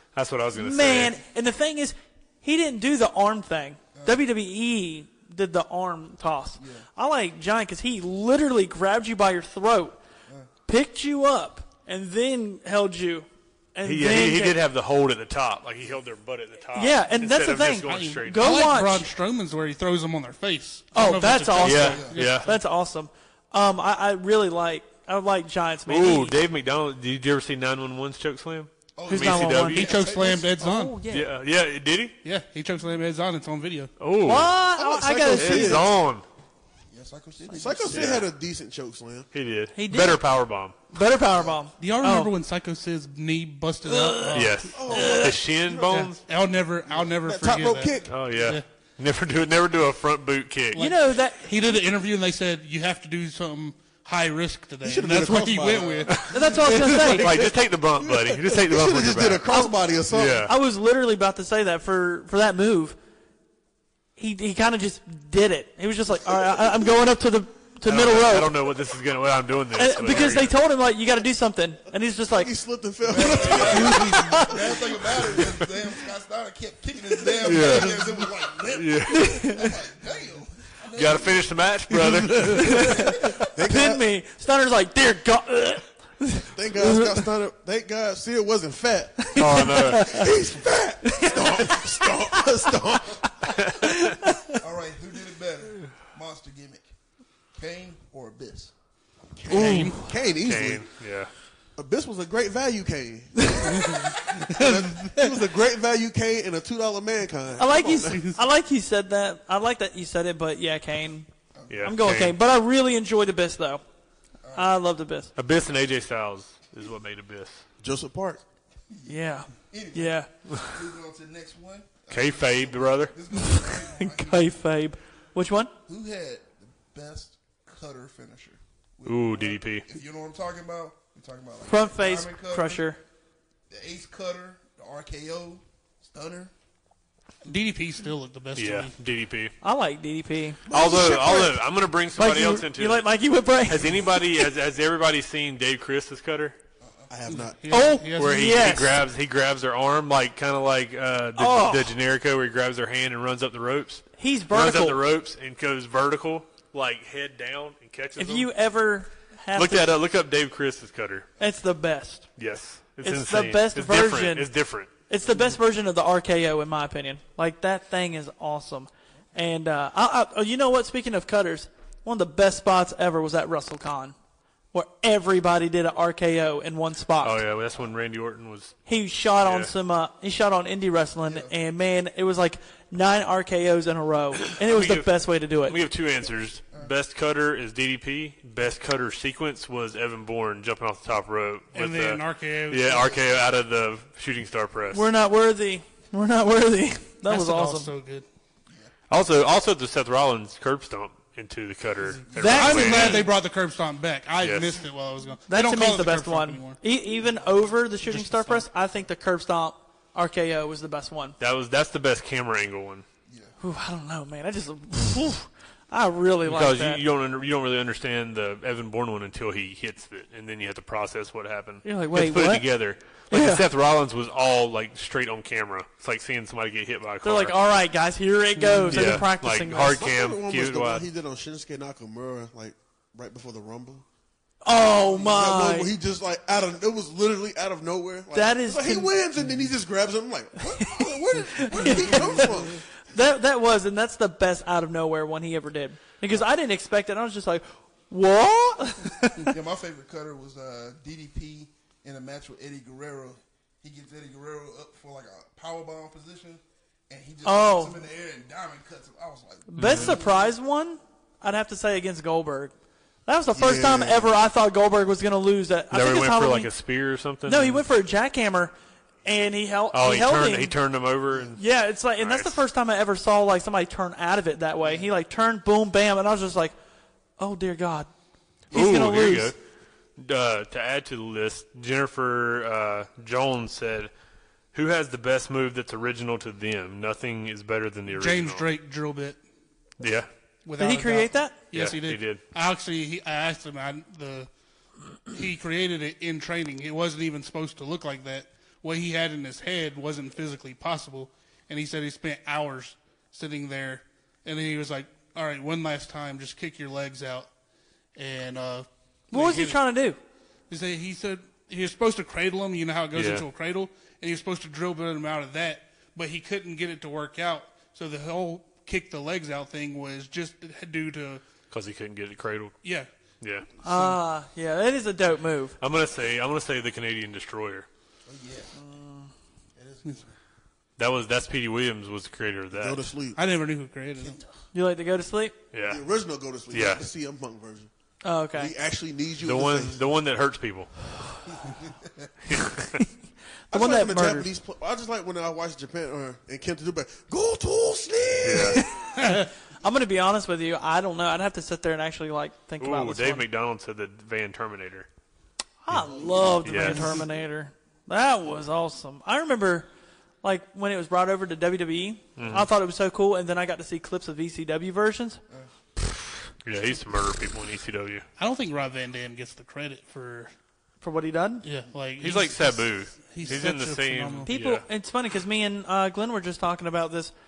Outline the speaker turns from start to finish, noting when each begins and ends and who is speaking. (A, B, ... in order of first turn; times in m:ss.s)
0:00.1-0:01.1 A
0:00.5-0:10.0 B
0:03.9-0:04.2 C
0:06.6-0:06.8 C
0:10.7-0:14.6 B
0:13.8-0:18.6 A
0:16.7-0:19.1 B
0:17.9-0:22.6 D
0:20.9-0:26.4 B
0:21.6-0:22.5 A
0:25.9-0:29.9 A
0:29.0-0:30.5 C
0:29.1-0:31.3 B
0:29.7-0:31.0 D
0:31.1-0:32.2 A
0:32.2-0:33.9 D
0:34.0-0:34.5 A
0:34.2-0:35.8 B
0:34.7-0:35.9 E
0:35.3-0:36.2 A
0:36.9-0:38.2 C
0:37.5-0:39.3 E
0:37.9-0:38.2 A
0:39.3-0:40.8 A
0:39.7-0:40.2 B
0:40.9-0:42.3 B
0:41.3-0:41.6 C
0:41.8-0:44.8 D
0:43.8-0:45.4 B
0:44.3-0:46.2 A
0:44.7-0:46.1 E
0:46.2-0:48.6 D
0:46.9-0:48.6 E
0:48.1-0:50.8 A
0:50.7-0:56.2 D
0:50.7-0:51.5 B
0:54.8-1:00.5 E
0:56.1-0:56.3 A
0:56.3-0:57.3 B
0:56.8-0:57.2 D
0:56.9-0:59.5 A
0:59.5-0:59.8 B
1:00.1-1:00.5 A
1:00.4-1:03.0 B
1:04.2-1:08.6 B
1:07.8-1:10.5 A
1:09.7-1:12.5 B
1:12.2-1:15.5 E
1:13.0-1:21.7 C
1:13.3-1:14.6 B
1:17.4-1:18.1 A
1:18.7-1:19.6 A
1:19.1-1:19.7 B
1:20.9-1:22.9 A
1:22.4-1:27.3 B
1:22.8-1:23.4 C
1:23.5-1:24.0 E
1:26.5-1:33.3 E
1:29.2-1:30.3 B
1:29.4-1:30.2 A
1:31.0-1:34.6 B
1:34.6-1:36.9 C
1:37.5-1:38.7 C
1:39.3-1:40.9 E
1:39.5-1:40.0 D
1:39.5-1:41.3 A
1:41.8-1:48.3 E
1:43.8-1:45.3 D
1:47.6-1:51.3 B
1:48.1-1:48.4 D
1:51.5-1:52.0 C
1:51.7-1:52.4 A
1:51.8-1:53.8 B
1:54.4-1:54.7 C
1:54.5-1:55.3 B
1:55.4-1:57.6 A
1:57.8-1:58.4 E
1:58.9-2:04.6 C
1:59.1-2:00.3 B
2:02.1-2:03.2 A
2:03.3-2:05.7 B
2:05.9-2:12.8 C
2:09.0-2:09.9 A
2:11.7-2:13.0 B
2:13.7-2:16.5 C
2:17.4-2:18.9 D
2:18.5-2:19.5 A
2:19.6-2:20.6 B
2:20.7-2:21.6 C
2:20.7-2:23.1 A
2:22.2-2:24.2 B
2:23.6-2:26.6 A
2:26.8-2:27.1 C
2:27.1-2:27.6 E
2:27.3-2:28.5 D
2:27.7-2:29.0 B
2:28.2-2:38.5 A
2:31.4-2:32.0 B
2:34.2-2:35.0 B
2:38.2-2:40.0 B
2:39.5-2:41.3 A
2:41.4-2:42.3 B
2:42.4-2:44.9 A
2:43.0-2:44.5 B
2:45.1-2:54.1 B
2:54.7-2:57.4 B
2:57.2-2:58.8 A
2:58.8-3:05.8 B
2:59.4-2:59.7 A
3:01.2-3:01.5 C
3:04.5-3:15.1 A
3:11.7-3:13.2 D
3:14.9-3:17.9 B
3:17.2-3:18.2 D
3:19.1-3:23.3 A
3:22.3-3:23.3 B
3:22.4-3:26.8 D
3:24.4-3:24.8 A
3:25.5-3:31.4 B
3:28.0-3:28.7 D
3:31.4-3:33.0 A
3:33.3-3:33.5 C
3:33.6-3:37.0 B
3:36.4-3:47.6 A
3:41.8-3:42.7 B
3:43.3-3:43.6 B
3:47.2-3:50.0 B
3:48.9-3:51.0 A
3:49.8-3:54.0 E
3:54.6-3:55.9 B
3:55.1-4:02.8 E
3:58.3-3:59.1 B
4:00.7-4:02.6 B
4:01.9-4:02.7 C
4:03.1-4:09.5 B
4:09.4-4:20.5 C
4:17.4-4:18.0 B
4:19.7-4:22.7 B
4:19.8-4:20.2 A
4:23.2-4:26.7 B
4:23.5-4:24.4 E
4:25.9-4:27.8 A
4:27.4-4:28.7 B
4:29.2-4:30.7 B
4:29.9-4:31.6 A
4:31.6-4:36.8 B
4:32.2-4:32.6 A
4:37.4-4:38.1 B
4:38.7-4:39.5 B
4:38.7-4:39.6 A
4:40.2-4:44.1 A
4:44.7-4:48.6 A
4:48.1-4:49.4 D
4:50.0-4:50.3 A
4:50.6-4:54.5 D
4:50.8-4:51.6 B
4:51.7-4:52.4 A
4:55.3-5:07.5 D
5:08.1-5:09.8 D
5:09.3-5:10.2 B
5:10.7-5:21.4 D
5:13.1-5:13.4 A
5:21.7-5:22.8 A
5:22.8-5:23.1 D
5:23.4-5:23.7 A
5:23.8-5:25.8 B
5:25.8-5:27.9 A
5:28.2-5:28.7 C
5:28.8-5:29.3 B
5:29.8-5:30.3 C
5:31.0-5:33.0 A
5:32.7-5:33.4 E
5:33.4-5:34.4 D
5:34.7-5:35.5 B
5:35.7-5:36.0 A
5:35.8-5:37.9 E
5:36.7-5:37.0 A
5:38.2-5:38.7 B
5:38.5-5:40.0 E
5:39.4-5:40.9 A
5:41.5-5:42.3 C
5:42.5-5:42.9 A
5:43.7-5:44.5 B
5:43.7-5:49.0 E
5:48.4-5:48.8 A
5:48.8-5:53.4 B
5:49.2-5:49.5 D
5:52.8-5:55.1 A
5:55.8-5:59.9 B
5:56.0-5:57.2 C
5:56.6-5:57.2 A
5:56.8-5:57.1 D
6:00.4-6:05.4 B
6:02.4-6:02.7 A
6:06.6-6:08.2 A
6:08.4-6:10.5 D
6:11.0-6:11.6 B
6:11.6-6:14.5 D
6:12.2-6:14.8 A
6:14.4-6:17.3 B